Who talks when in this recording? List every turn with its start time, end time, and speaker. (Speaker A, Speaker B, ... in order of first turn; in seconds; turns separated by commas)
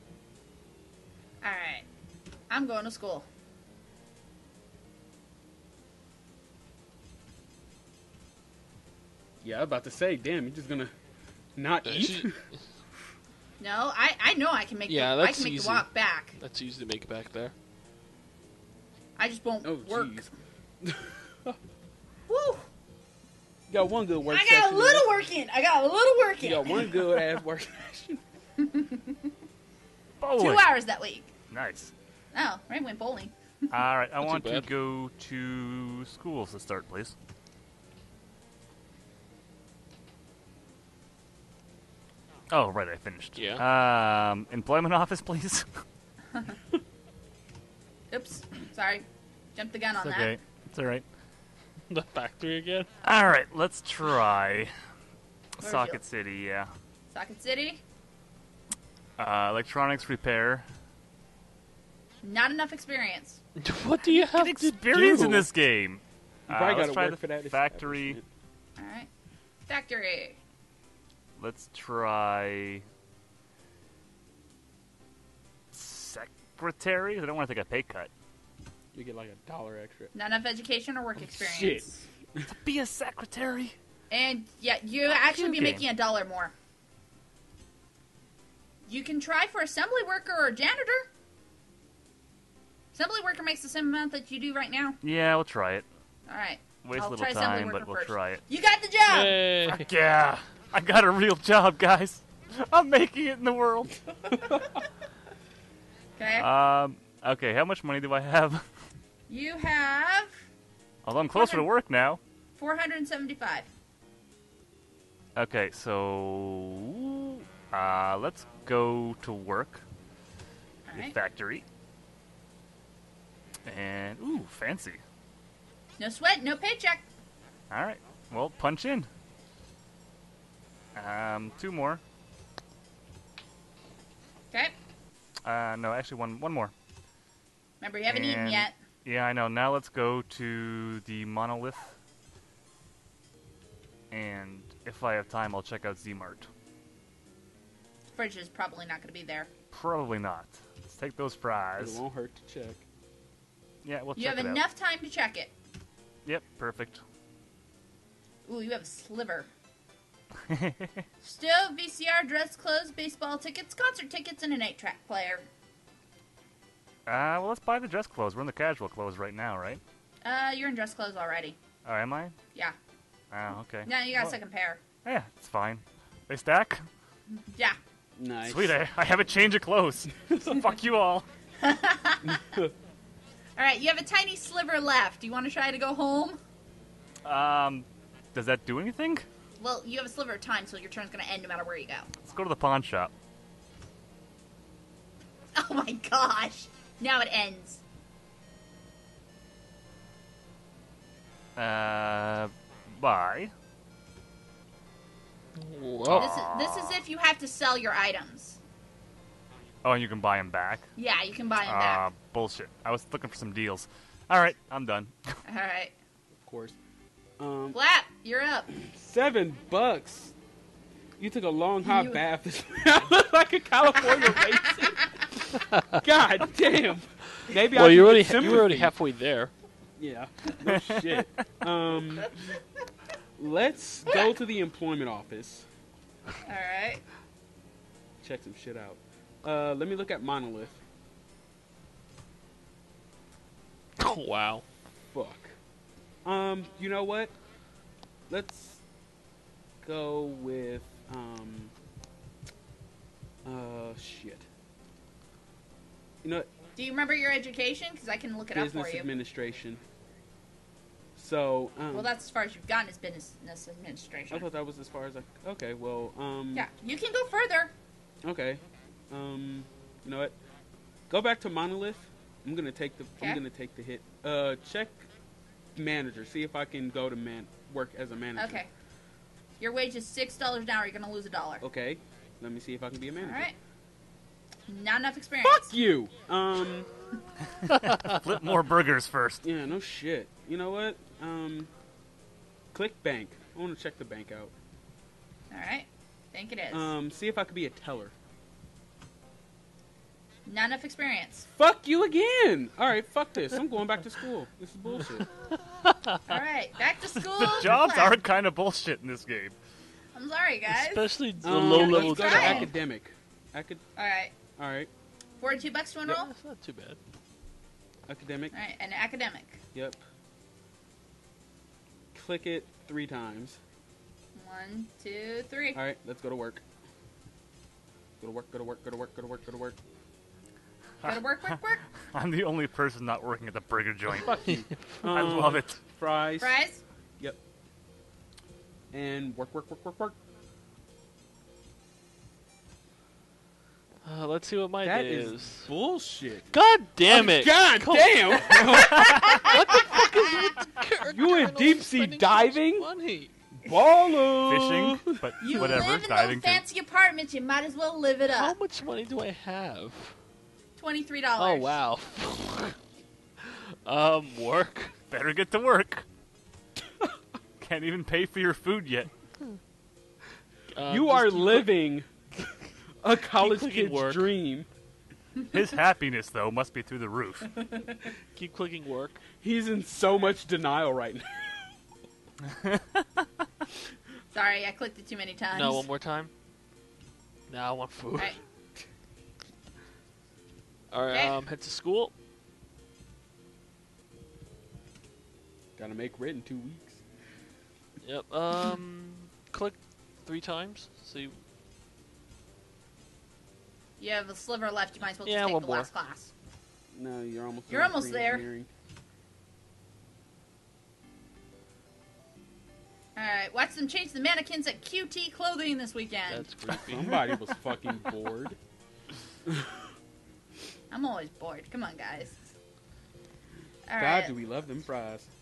Speaker A: 1.4-1.9, Speaker A: 2.5-3.3, Speaker B: 9.4-10.9, Speaker B: 11.6-12.4, Speaker C: 11.8-12.6, Speaker A: 13.6-16.4, Speaker C: 14.9-15.9, Speaker C: 16.4-17.5, Speaker A: 19.2-20.2, Speaker B: 19.6-21.6, Speaker A: 22.3-22.7, Speaker B: 23.7-25.1, Speaker A: 24.3-27.1, Speaker B: 26.4-28.2, Speaker A: 28.6-29.3, Speaker D: 30.2-30.7, Speaker A: 30.4-31.3, Speaker D: 31.5-31.9, Speaker A: 32.3-33.3, Speaker D: 33.7-37.1, Speaker C: 34.2-34.7, Speaker D: 42.5-45.8, Speaker C: 43.3-43.6, Speaker A: 48.1-50.3, Speaker D: 50.0-51.0, Speaker C: 51.9-52.9, Speaker D: 53.0-54.7, Speaker D: 55.6-56.7, Speaker A: 55.6-56.0, Speaker A: 57.1-57.8, Speaker D: 59.2-60.6, Speaker A: 62.2-63.4, Speaker C: 63.6-65.1, Speaker D: 64.3-68.2, Speaker B: 64.9-65.5, Speaker B: 66.5-68.2, Speaker A: 68.8-69.1, Speaker A: 69.7-70.4, Speaker D: 71.4-72.8, Speaker D: 75.7-78.1, Speaker B: 78.9-80.1, Speaker A: 80.1-82.0, Speaker B: 81.2-82.5, Speaker D: 82.5-83.8, Speaker A: 84.1-86.5, Speaker D: 85.3-85.8, Speaker A: 88.9-91.1, Speaker A: 92.9-95.0, Speaker D: 95.0-95.8, Speaker A: 96.3-99.4, Speaker D: 96.8-98.4, Speaker C: 99.1-99.9, Speaker D: 99.7-104.0, Speaker A: 106.2-106.5, Speaker D: 106.4-108.7, Speaker A: 109.3-110.4, Speaker D: 111.0-112.2, Speaker A: 111.3-111.7, Speaker A: 112.5-113.7, Speaker D: 115.3-119.8, Speaker A: 120.8-121.2, Speaker D: 120.9-121.6, Speaker D: 123.6-125.0, Speaker A: 126.0-127.0, Speaker D: 127.7-129.1, Speaker D: 130.9-132.0, Speaker D: 135.4-136.7, Speaker A: 137.8-138.7, Speaker D: 138.1-142.0, Speaker D: 144.1-146.5, Speaker A: 148.1-149.5, Speaker D: 149.7-152.0, Speaker B: 151.8-152.8, Speaker D: 153.8-154.6, Speaker A: 154.2-155.5, Speaker D: 156.2-157.0, Speaker A: 158.4-159.5, Speaker D: 160.4-161.0, Speaker A: 161.2-165.5, Speaker D: 167.1-169.8, Speaker A: 170.2-171.6, Speaker D: 171.8-172.3, Speaker D: 173.3-174.3, Speaker A: 173.8-174.8, Speaker D: 175.0-176.8, Speaker A: 177.4-177.8, Speaker B: 178.2-178.8, Speaker D: 178.4-181.2, Speaker A: 181.6-182.4, Speaker B: 182.2-182.7, Speaker A: 183.6-186.4, Speaker D: 187.2-189.3, Speaker A: 189.6-192.1, Speaker D: 192.2-193.1, Speaker A: 195.5-197.8, Speaker D: 201.6-203.5, Speaker C: 205.6-206.3, Speaker D: 206.0-207.0, Speaker A: 206.1-208.6, Speaker D: 209.8-210.8, Speaker A: 211.0-212.0, Speaker D: 211.6-215.4, Speaker A: 215.4-215.9, Speaker B: 216.3-216.8, Speaker B: 217.4-217.8, Speaker A: 217.7-218.7, Speaker B: 218.7-220.3, Speaker B: 221.2-225.2, Speaker A: 221.8-222.2, Speaker C: 225.7-226.0, Speaker B: 225.9-228.9, Speaker C: 227.5-229.5, Speaker B: 230.0-232.3, Speaker D: 230.7-231.2, Speaker B: 233.4-235.7, Speaker A: 236.4-237.0, Speaker B: 238.2-240.8, Speaker C: 244.0-244.6, Speaker B: 245.1-245.6, Speaker B: 246.2-247.3, Speaker B: 248.3-248.8, Speaker B: 249.8-251.7, Speaker B: 253.4-254.4, Speaker B: 256.2-256.5, Speaker A: 256.8-259.1, Speaker B: 258.5-259.8, Speaker B: 261.1-262.1, Speaker A: 261.9-264.5, Speaker B: 264.3-266.7, Speaker A: 266.5-267.7, Speaker B: 268.2-270.4, Speaker B: 271.1-275.1, Speaker B: 275.7-278.6, Speaker A: 278.4-278.7, Speaker A: 279.6-281.6, Speaker B: 281.6-283.5, Speaker A: 283.2-283.5, Speaker A: 284.7-285.7, Speaker B: 285.4-286.9, Speaker D: 288.0-289.4, Speaker B: 289.4-291.7, Speaker B: 292.7-294.5, Speaker A: 295.5-296.9, Speaker B: 296.7-298.1, Speaker A: 300.4-301.5, Speaker B: 301.5-305.3, Speaker C: 305.7-306.2, Speaker A: 306.3-308.2, Speaker D: 307.1-309.6, Speaker A: 310.1-312.8, Speaker C: 310.7-312.8, Speaker B: 311.4-313.8, Speaker A: 313.9-314.3, Speaker B: 314.6-314.9, Speaker A: 315.4-316.3, Speaker C: 316.1-317.0, Speaker B: 318.1-318.5, Speaker A: 318.5-319.6, Speaker B: 319.7-320.0, Speaker B: 322.1-323.6, Speaker A: 324.3-325.8, Speaker B: 325.7-326.6, Speaker B: 328.2-329.8, Speaker D: 331.0-331.6, Speaker A: 331.0-331.9, Speaker D: 332.1-334.4, Speaker B: 334.2-336.6, Speaker C: 334.4-335.4, Speaker D: 335.1-335.8, Speaker A: 336.4-336.8, Speaker B: 338.9-340.2, Speaker C: 344.0-345.7, Speaker B: 344.8-346.5, Speaker C: 346.5-353.3, Speaker B: 347.1-350.0, Speaker D: 348.8-349.4, Speaker A: 348.9-350.1, Speaker B: 351.1-352.9, Speaker B: 353.5-355.7, Speaker D: 354.4-356.6, Speaker A: 355.4-358.6, Speaker C: 358.3-360.1, Speaker A: 360.8-361.8, Speaker C: 361.4-362.8, Speaker C: 363.4-364.9, Speaker D: 365.1-366.0, Speaker D: 367.6-369.1, Speaker C: 370.7-371.8, Speaker B: 370.9-372.1, Speaker B: 373.0-374.7, Speaker C: 373.4-374.3, Speaker D: 375.5-377.5, Speaker C: 378.3-379.2, Speaker B: 379.4-381.6, Speaker D: 382.5-383.2, Speaker A: 384.3-385.9, Speaker C: 385.5-386.3, Speaker C: 387.5-388.4, Speaker C: 390.9-392.1, Speaker A: 391.1-391.4, Speaker B: 395.8-397.0, Speaker C: 398.0-401.4, Speaker A: 404.0-406.3, Speaker C: 405.2-405.9, Speaker B: 406.9-408.7, Speaker A: 407.7-408.5, Speaker A: 413.1-416.4, Speaker C: 416.3-417.2, Speaker B: 416.6-418.6, Speaker A: 420.9-422.4, Speaker A: 423.9-424.3, Speaker B: 424.0-425.3